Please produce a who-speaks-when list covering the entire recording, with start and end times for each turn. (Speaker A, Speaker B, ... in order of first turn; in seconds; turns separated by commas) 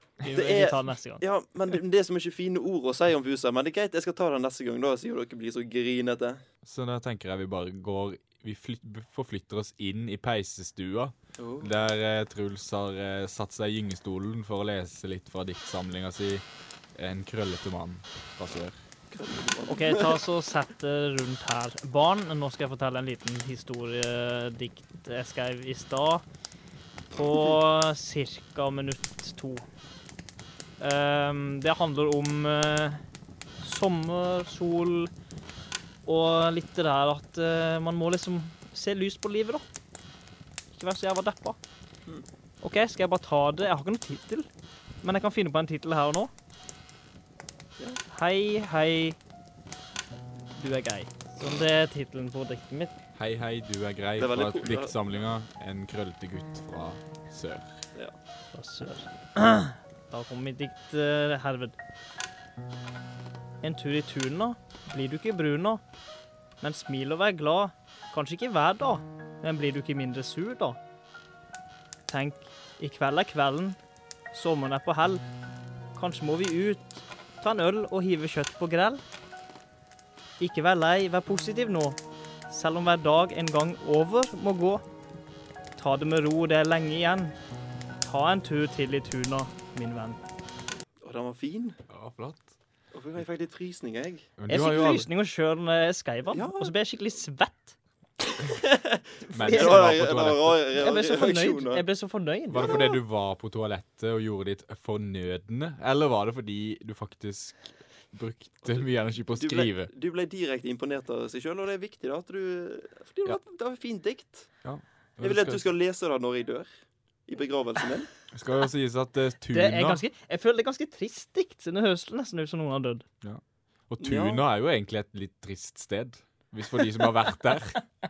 Speaker A: 0.2-1.2, Speaker B: 0.3-6.4, Speaker C: 6.6-16.4, Speaker B: 11.4-11.8, Speaker C: 16.9-18.8, Speaker B: 19.1-20.2, Speaker A: 19.7-26.2, Speaker A: 27.1-29.6, Speaker A: 30.8-33.0, Speaker A: 33.6-35.1, Speaker A: 36.0-39.6, Speaker A: 40.7-41.6, Speaker A: 42.6-44.5, Speaker A: 45.0-46.3, Speaker A: 48.1-49.2, Speaker A: 50.6-52.9, Speaker C: 53.1-57.8, Speaker B: 54.2-55.0, Speaker A: 58.5-61.8, Speaker A: 63.6-65.8, Speaker A: 66.6-70.8, Speaker A: 72.1-73.8, Speaker A: 74.3-75.2, Speaker A: 75.9-79.0, Speaker A: 80.4-84.8, Speaker A: 85.8-87.3, Speaker A: 88.0-90.2, Speaker B: 91.0-91.8, Speaker C: 91.9-92.5, Speaker B: 92.9-94.3, Speaker C: 94.4-95.1, Speaker A: 94.5-97.8, Speaker B: 96.3-96.7, Speaker B: 98.4-101.8, Speaker A: 99.3-99.9, Speaker C: 99.3-100.6, Speaker A: 100.8-102.8, Speaker C: 102.5-109.9, Speaker B: 102.6-102.9, Speaker B: 108.7-114.5, Speaker C: 114.6-115.6, Speaker B: 115.2-116.7, Speaker B: 117.3-118.1, Speaker C: 118.3-120.0, Speaker A: 119.5-123.0, Speaker C: 123.2-127.8, Speaker B: 124.0-124.4